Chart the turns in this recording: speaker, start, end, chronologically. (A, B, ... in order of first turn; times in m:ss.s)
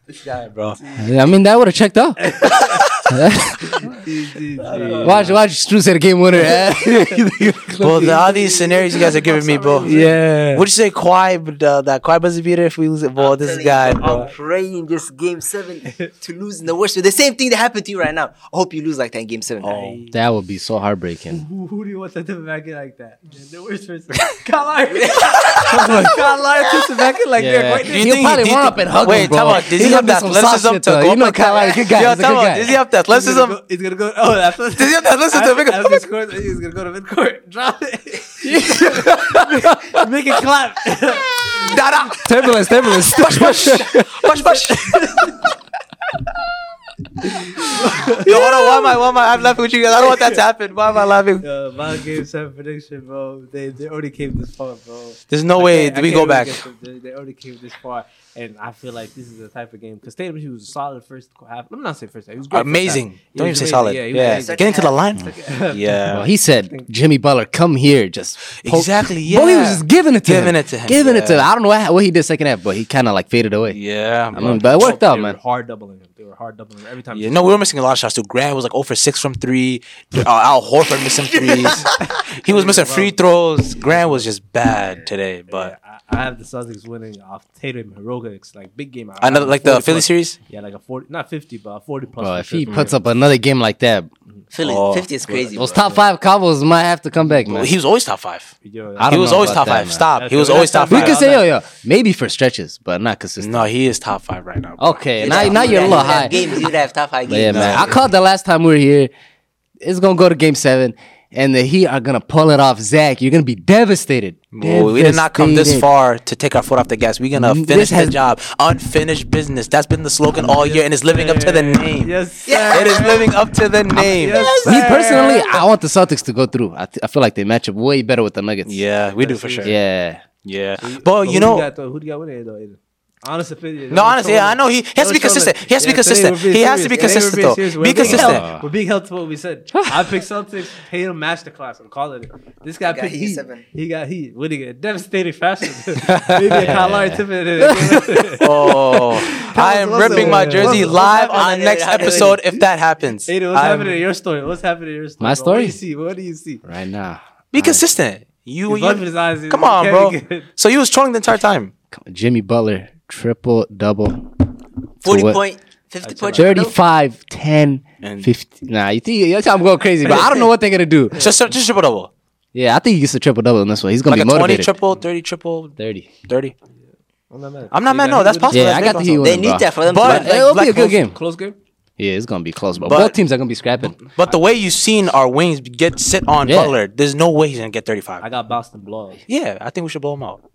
0:01.0-0:02.2 A
0:02.2-0:02.9 B
0:03.1-0:03.8 A
0:03.8-0:05.4 B
0:04.7-0:05.1 C
0:05.0-0:08.0 A
0:06.5-0:10.3 B
0:07.8-0:14.3 D
0:08.5-0:09.9 C
0:09.8-0:10.7 A
0:13.2-0:19.7 C
0:19.6-0:20.0 D
0:19.7-0:20.2 B
0:20.1-0:21.4 A
0:21.3-0:28.2 B
0:24.9-0:25.7 C
0:27.4-0:32.8 A
0:27.8-0:33.6 D
0:33.1-0:41.8 B
0:34.8-0:36.1 D
0:38.6-0:40.0 A
0:41.6-0:45.3 D
0:42.2-0:44.2 A
0:44.4-0:45.5 B
0:47.2-0:48.8 B
0:48.2-0:51.4 D
0:49.9-0:50.4 B
0:51.4-1:06.1 B
0:55.3-0:56.6 D
1:02.5-1:06.3 D
1:04.2-1:05.0 C
1:06.1-1:13.8 A
1:08.6-1:11.5 D
1:13.7-1:14.9 D
1:14.3-1:15.4 A
1:14.3-1:17.4 B
1:17.1-1:25.7 D
1:22.1-1:24.3 B
1:25.5-1:33.0 B
1:29.2-1:30.4 D
1:32.2-1:34.1 A
1:32.7-1:33.0 D
1:34.5-1:36.0 C
1:34.6-1:35.1 D
1:35.3-1:37.7 A
1:37.5-1:38.5 D
1:38.6-1:41.5 B
1:39.0-1:40.1 A
1:39.1-1:41.2 D
1:40.9-1:43.7 A
1:43.4-1:46.2 D
1:44.8-1:46.7 A
1:45.2-1:48.0 C
1:45.5-1:46.3 B
1:47.3-1:49.1 A
1:47.4-1:48.1 D
1:49.8-1:55.9 A
1:54.5-2:02.1 D
1:57.3-1:58.2 A
2:00.4-2:03.3 B
2:02.5-2:03.3 C
2:02.7-2:04.5 D
2:03.9-2:05.6 B
2:04.4-2:05.0 C
2:04.6-2:08.8 A
2:08.6-2:09.7 D
2:09.2-2:09.8 B
2:09.6-2:10.2 A
2:10.4-2:11.7 D
2:10.8-2:32.6 B
2:13.9-2:18.5 D
2:16.9-2:17.3 C
2:18.0-2:18.6 A
2:19.8-2:20.0 A
2:22.8-2:23.6 C
2:26.6-2:28.9 A
2:28.4-2:34.0 D
2:30.0-2:32.4 C
2:30.4-2:30.8 A
2:33.2-2:36.6 B
2:35.2-2:35.8 A
2:36.6-2:37.9 A
2:37.5-2:41.7 D
2:38.7-2:40.5 B
2:41.9-2:44.2 A
2:45.0-2:45.4 A
2:45.0-2:46.8 C
2:46.0-2:46.7 B
2:46.3-2:51.2 A
2:48.0-2:48.3 D
2:51.2-2:52.1 D
2:52.5-2:54.7 A
2:54.0-2:55.8 D
2:55.8-2:56.1 A
2:56.3-2:56.5 D
2:57.3-2:58.9 B
2:57.7-3:01.0 D
2:58.5-3:01.2 A
2:59.2-3:00.4 C
3:01.0-3:01.6 B
3:02.0-3:04.0 A
3:02.8-3:03.2 D
3:04.0-3:08.2 D
3:06.4-3:06.8 A
3:08.2-3:09.2 B
3:09.3-3:10.4 D